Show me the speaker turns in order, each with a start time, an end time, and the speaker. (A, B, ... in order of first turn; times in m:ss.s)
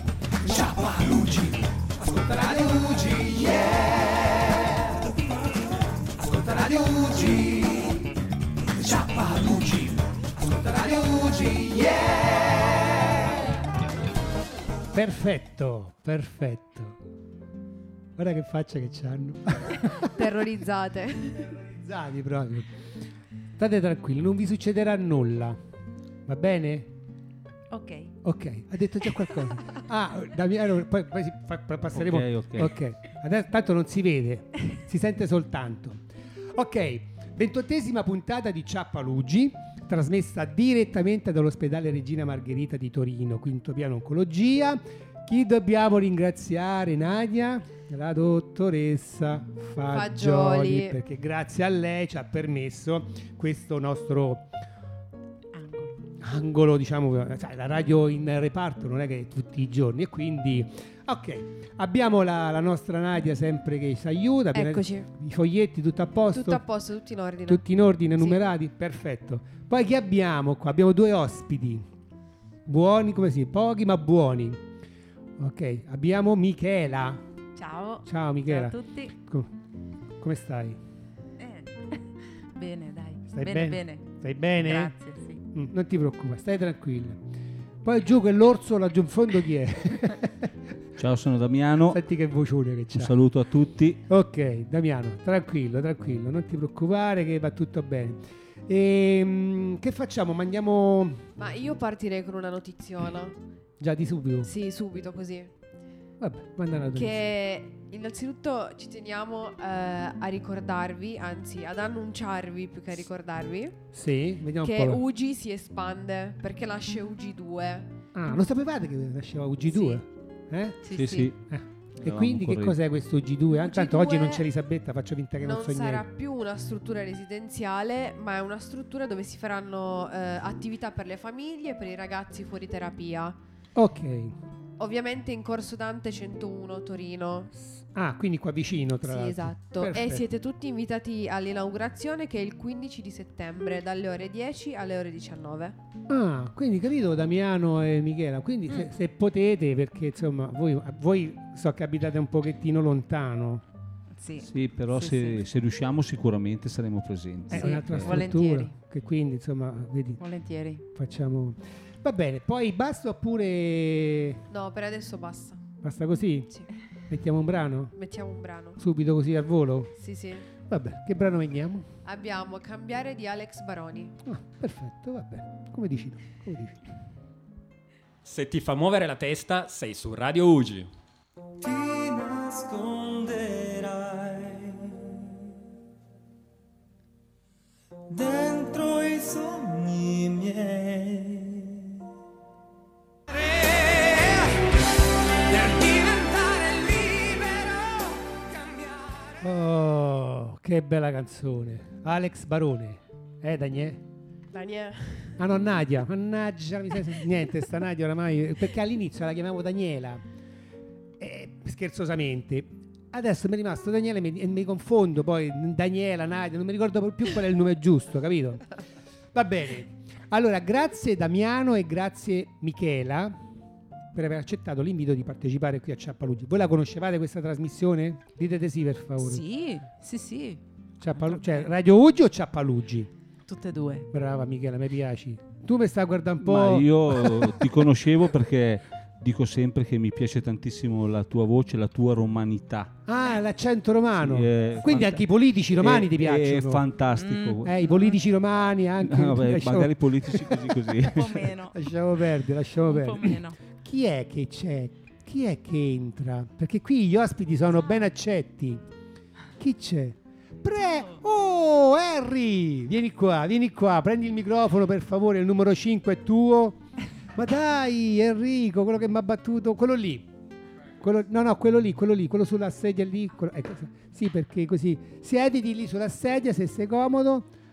0:00.4-0:03.9 A
0:06.2-0:07.6 A
0:08.8-0:12.1 A
0:14.9-0:17.0 A
0:18.2-0:20.2 A
0:20.0-0:21.5 B
0:21.5-0:22.7 A
0:23.6-0:25.6 A
0:26.3-0:26.9 A
0:27.7-0:28.1 C
0:28.2-0:54.5 A
0:31.9-0:32.8 D
0:49.9-0:51.0 B
0:55.5-0:56.0 C
0:56.2-1:06.6 A
1:04.5-1:05.1 B
1:06.3-1:08.5 B
1:07.4-1:11.9 A
1:12.7-1:14.6 A
1:15.4-1:17.2 A
1:17.6-1:19.1 C
1:18.0-1:19.5 A
1:20.2-1:20.8 A
1:21.4-1:25.4 C
1:23.3-1:25.0 A
1:25.5-1:27.2 A
1:27.8-1:30.5 A
1:31.0-1:32.0 D
1:31.8-1:33.2 A
1:33.0-1:34.0 D
1:34.1-1:41.3 A
1:41.4-1:43.4 B
1:43.8-1:44.5 A
1:44.4-1:45.5 B
1:46.2-1:47.3 A
1:46.9-1:53.8 B
1:53.9-1:55.0 A
1:54.6-1:57.9 B
1:58.1-2:06.1 A
1:59.7-2:00.0 B
2:00.8-2:01.3 C
2:00.9-2:01.4 D
2:02.0-2:02.8 D
2:03.5-2:04.5 B
2:05.4-2:13.4 B
2:13.8-2:14.4 A
2:14.8-2:17.5 B
2:17.7-2:20.2 A
2:19.0-2:25.8 B
2:26.1-2:33.6 A
2:34.2-2:35.4 C
2:34.4-2:38.2 D
2:37.5-2:40.2 A
2:37.5-2:38.7 C
2:40.2-2:40.8 C
2:40.9-2:44.4 A
2:44.5-2:45.6 B
2:45.8-2:46.5 A
2:47.1-2:47.9 A
2:47.9-2:48.8 B
2:48.8-2:49.9 A
2:50.0-2:50.5 B
2:50.6-2:51.9 A
2:52.0-2:54.2 B
2:54.2-2:56.8 A
2:58.2-3:00.9 E
3:01.6-3:05.0 F
3:08.1-3:11.8 F
3:13.4-3:14.5 F
3:15.5-3:19.0 F
3:19.4-3:24.0 A
3:24.5-3:25.4 B
3:25.4-3:30.2 A
3:31.2-3:38.7 A
3:39.3-3:43.4 A
3:44.1-3:49.4 A
3:49.2-3:50.6 C
3:51.0-3:53.1 A
3:51.1-3:51.7 C
3:53.5-3:54.1 C
3:54.1-3:57.6 A
3:56.4-4:02.9 D
4:03.1-4:06.9 A
4:04.2-4:07.8 D
4:07.2-4:08.2 C
4:07.6-4:18.8 A
4:09.0-4:11.5 D
4:11.0-4:11.8 C
4:12.8-4:13.6 C
4:19.6-4:26.8 A
4:20.9-4:21.2 C
4:27.3-4:30.3 A
4:31.0-4:37.5 A